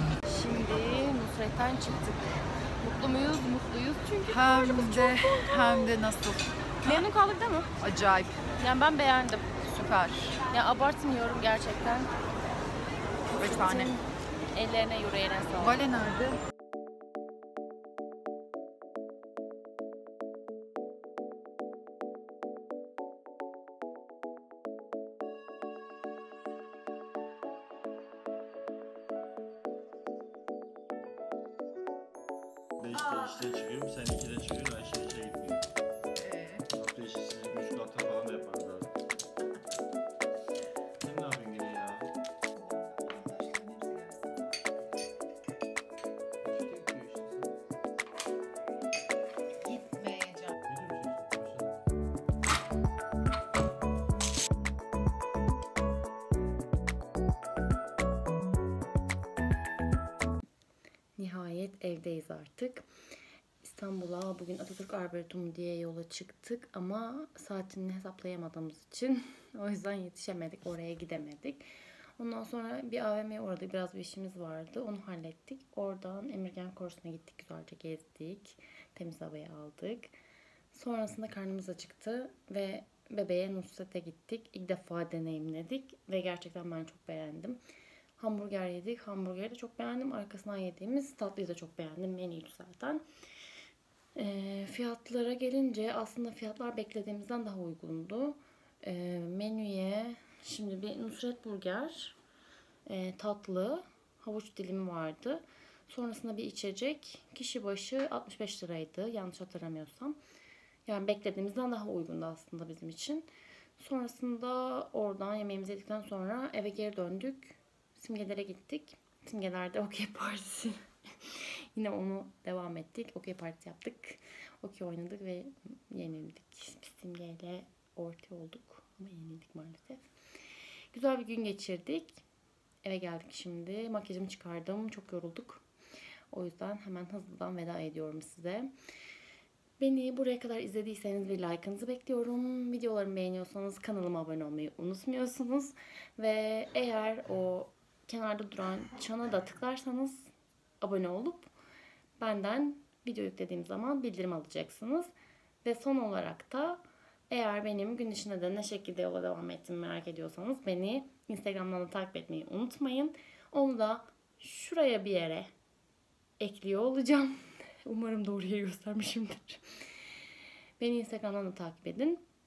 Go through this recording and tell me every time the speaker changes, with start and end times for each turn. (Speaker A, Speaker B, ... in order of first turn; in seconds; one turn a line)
Speaker A: 0.2-5.7
Speaker B: 4.3-7.0
Speaker A: 6.8-7.7
Speaker B: 7.8-8.3
Speaker A: 8.6-9.6
Speaker B: 9.6-10.4
Speaker A: 10.4-12.1
Speaker B: 13.4-13.9
Speaker A: 13.4-15.8
Speaker B: 15.6-16.4
Speaker C: 32.8-35.6
Speaker B: 36.2-36.6
Speaker C: 36.7-38.9
Speaker C: 41.0-42.1
Speaker B: 43.0-43.9
Speaker C: 46.7-47.3
Speaker C: 50.7-51.6
Speaker A: 61.2-62.9
Speaker A: 63.6-71.7
Speaker A: 72.2-80.1
Speaker A: 80.7-87.6
Speaker A: 88.2-93.0
Speaker A: 94.1-102.2
Speaker A: 102.8-110.2
Speaker A: 110.8-113.3
Speaker A: 113.8-130.1
Speaker A: 130.9-132.2
Speaker A: 132.8-135.6
Speaker A: 136.3-138.7
Speaker A: 139.8-151.5
Speaker A: 152.2-165.5
Speaker A: 166.4-169.7
Speaker A: 170.8-172.2